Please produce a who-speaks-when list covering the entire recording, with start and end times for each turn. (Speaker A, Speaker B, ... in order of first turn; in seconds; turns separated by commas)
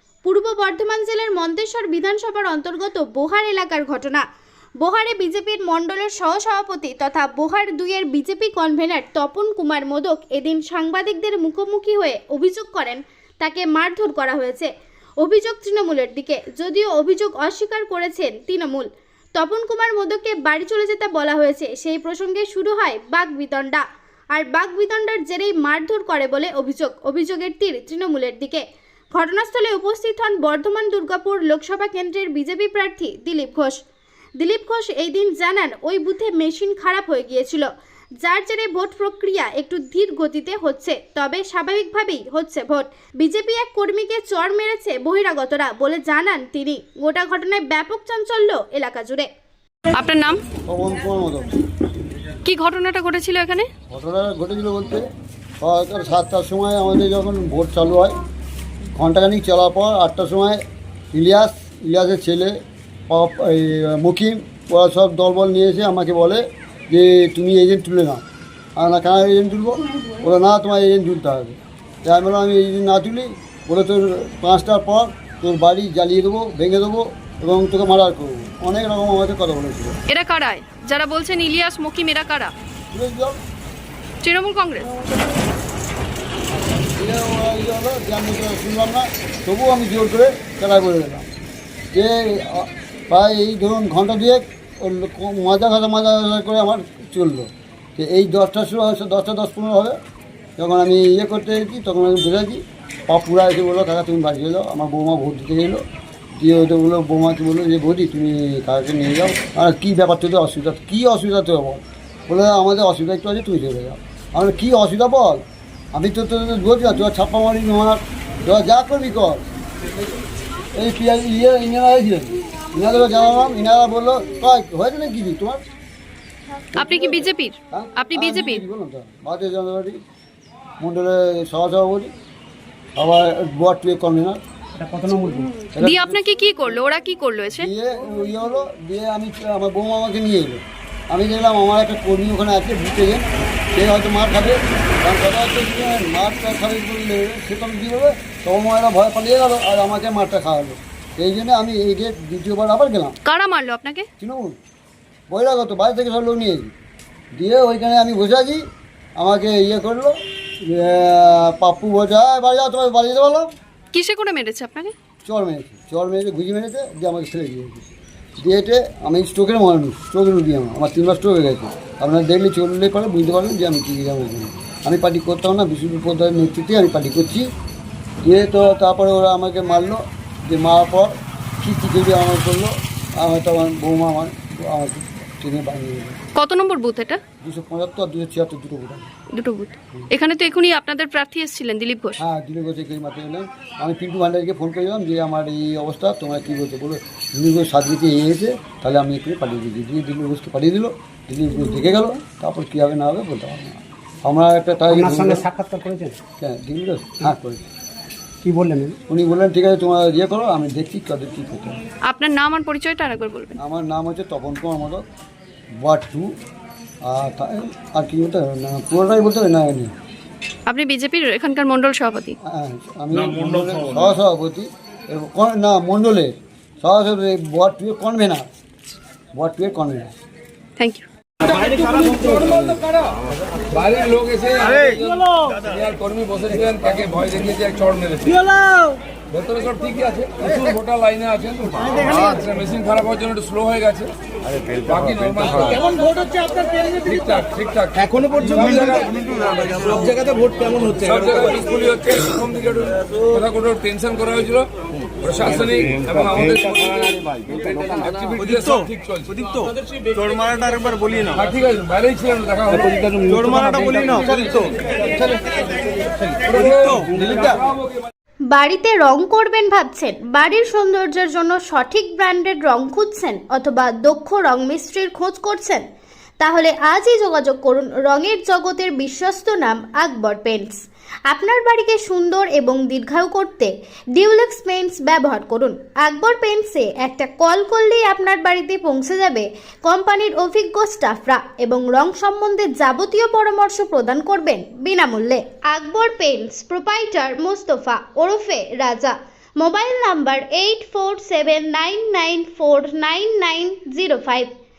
Speaker A: 0.2-4.2, Speaker A: 4.8-33.8, Speaker A: 34.4-37.7, Speaker A: 38.2-49.3, Speaker B: 49.9-50.4, Speaker C: 50.6-51.5, Speaker B: 52.4-53.7, Speaker C: 53.9-55.0, Speaker C: 55.6-58.2, Speaker C: 58.9-60.6, Speaker C: 61.1-62.5, Speaker C: 63.1-68.2, Speaker C: 68.8-80.0, Speaker B: 80.1-82.5, Speaker C: 82.9-83.4, Speaker B: 84.2-84.9, Speaker C: 86.5-91.3, Speaker C: 91.9-100.0, Speaker C: 100.6-105.8, Speaker C: 106.4-119.4, Speaker C: 120.7-125.6, Speaker B: 126.7-128.6, Speaker C: 126.8-127.1, Speaker C: 127.7-130.0, Speaker C: 130.8-132.1, Speaker C: 132.9-134.4, Speaker D: 134.8-135.6, Speaker B: 135.6-137.7, Speaker C: 135.7-136.2, Speaker C: 137.5-153.2, Speaker B: 153.2-154.1, Speaker C: 154.2-154.6, Speaker C: 155.3-156.7, Speaker C: 157.3-158.6, Speaker C: 159.2-163.5, Speaker B: 163.9-164.9, Speaker C: 165.2-167.8, Speaker C: 168.4-177.5, Speaker C: 178.2-186.2, Speaker B: 186.3-187.2, Speaker C: 187.4-189.1, Speaker B: 189.3-192.2, Speaker C: 192.2-205.5, Speaker D: 204.9-206.2, Speaker C: 206.4-207.6, Speaker D: 208.4-209.0, Speaker C: 209.1-211.8, Speaker B: 212.1-213.6, Speaker C: 213.6-215.0, Speaker C: 215.8-216.3, Speaker C: 217.0-219.9, Speaker B: 220.7-222.3, Speaker C: 222.4-228.4, Speaker C: 229.3-230.1, Speaker B: 230.8-231.0, Speaker E: 231.4-238.5, Speaker D: 238.5-239.0, Speaker E: 239.3-244.1, Speaker E: 244.7-254.7, Speaker E: 255.2-259.7, Speaker E: 260.2-260.6, Speaker E: 261.1-262.8, Speaker D: 262.7-264.5, Speaker E: 264.3-264.9, Speaker D: 266.0-266.5, Speaker E: 266.4-268.0, Speaker D: 267.1-267.5, Speaker A: 268.5-275.8, Speaker A: 276.4-304.5